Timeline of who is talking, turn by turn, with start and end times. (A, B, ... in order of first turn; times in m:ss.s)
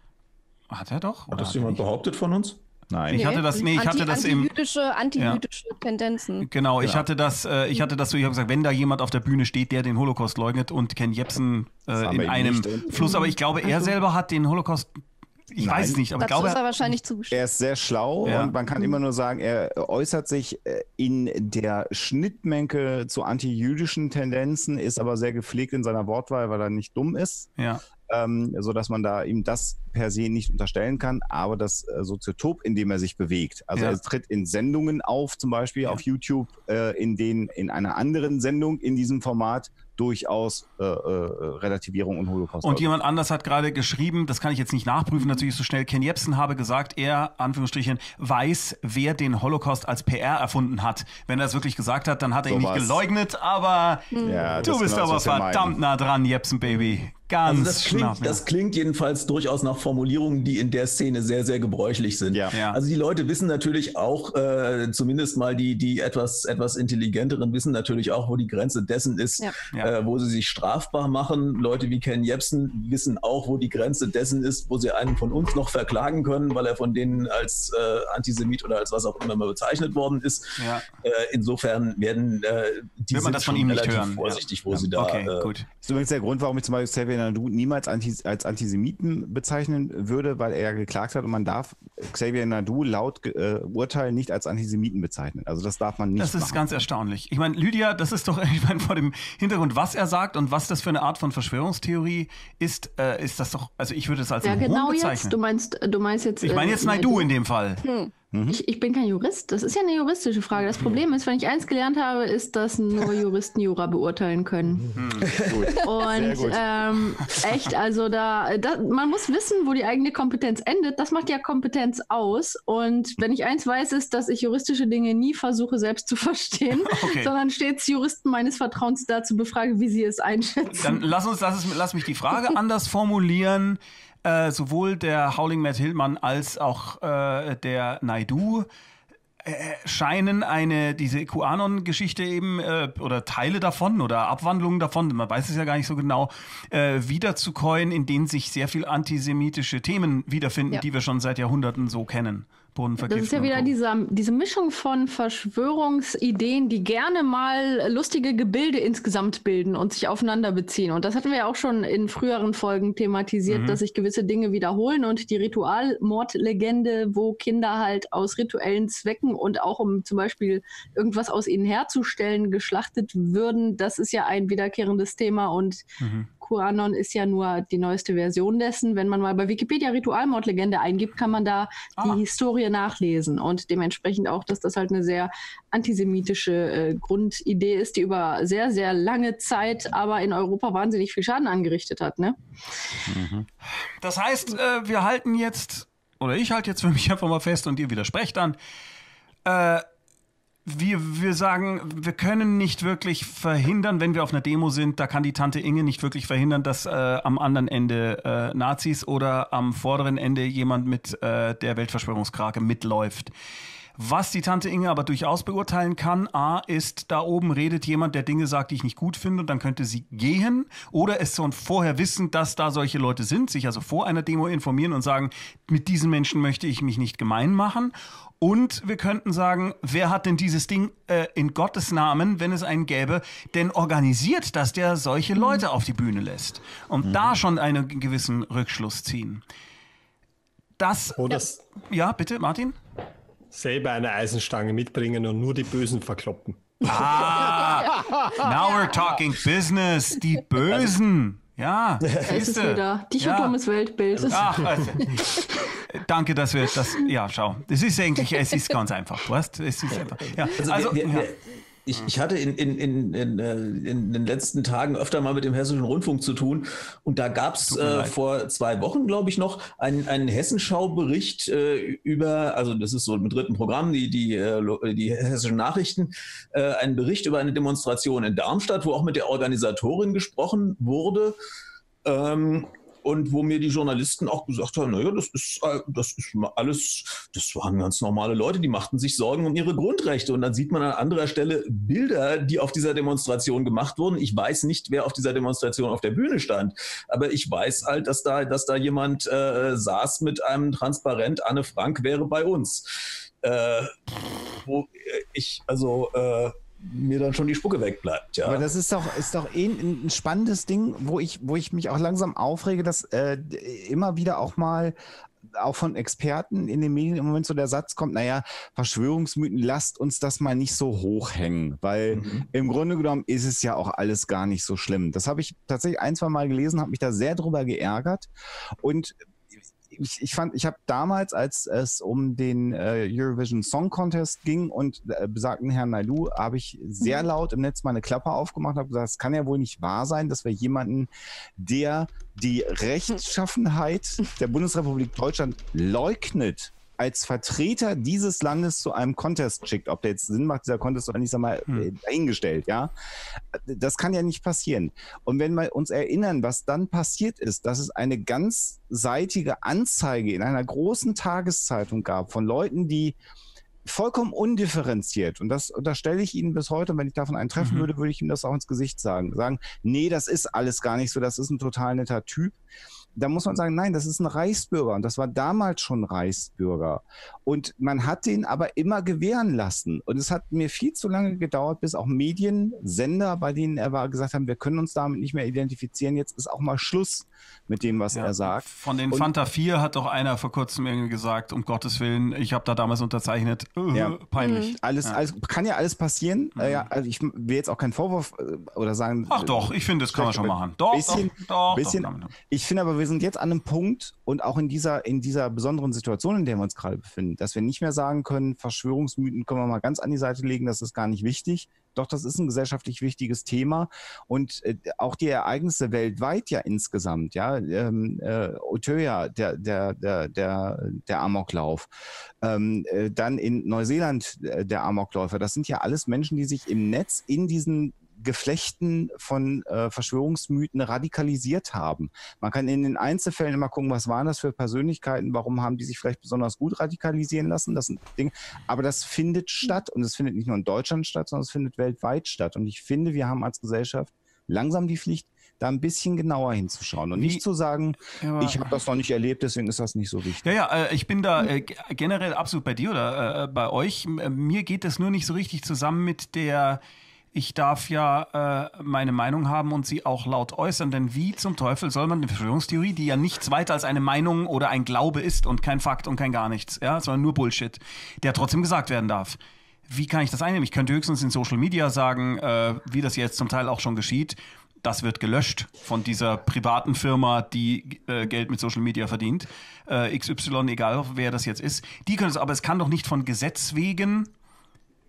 0:00.7-0:01.8 A
0:01.3-0:02.6 B
0:02.9-0:03.4 C
0:03.1-0:04.5 A
0:03.1-0:06.5 D
0:05.2-0:05.4 A
0:06.4-0:16.6 A
0:06.8-0:07.0 C
0:12.0-0:13.3 C
0:15.6-0:16.0 C
0:16.2-0:17.4 D
0:17.3-0:27.5 C
0:18.2-0:18.5 A
0:27.6-0:27.8 A
0:28.1-0:42.9 C
0:42.6-0:58.4 A
0:52.5-0:53.0 C
0:54.1-0:54.4 D
0:54.2-0:55.8 C
0:57.4-1:25.5 B
1:02.5-1:02.8 A
1:20.6-1:20.8 A
1:23.1-1:25.7 A
1:25.8-1:36.6 C
1:36.2-1:45.4 A
1:44.4-1:47.3 E
1:46.4-1:47.8 A
1:47.8-1:48.1 D
1:48.3-1:48.6 C
1:48.5-1:54.9 E
1:55.0-1:55.3 A
1:55.2-1:55.6 B
1:55.4-1:56.6 C
1:55.8-2:11.0 E
2:06.8-2:07.3 A
2:10.7-2:18.7 A
2:19.4-2:33.7 A
2:33.0-2:55.8 E
2:43.5-2:43.8 A
2:56.0-2:56.3 A
2:56.4-3:12.4 E
3:13.1-3:13.4 C
3:14.0-3:18.6 A
3:19.4-3:19.8 A
3:20.6-3:33.3 A
3:34.0-3:59.4 A
3:57.0-3:57.4 C
4:00.8-4:02.8 A
4:01.2-4:01.6 F
4:03.5-4:08.5 F
4:06.8-4:13.6 A
4:10.7-4:11.0 B
4:12.0-4:12.4 B
4:12.2-4:15.1 E
4:14.3-4:21.3 A
4:20.2-4:41.4 B
4:27.7-4:28.2 A
4:42.0-5:08.7 B
5:08.4-5:15.0 C
5:15.5-5:29.2 C
5:22.1-5:22.4 B
5:29.9-5:52.9 C
5:53.5-6:03.2 C
6:03.8-6:12.6 C
6:07.6-6:07.9 A
6:13.2-6:29.3 C
6:28.1-6:35.2 A
6:33.9-7:01.9 C
6:34.4-6:34.7 D
6:36.6-6:36.9 A
6:39.3-6:42.3 A
7:02.4-7:30.5 C
7:27.2-7:27.4 A
7:28.2-7:28.8 A
7:30.4-7:36.8 A
7:37.3-8:04.3 A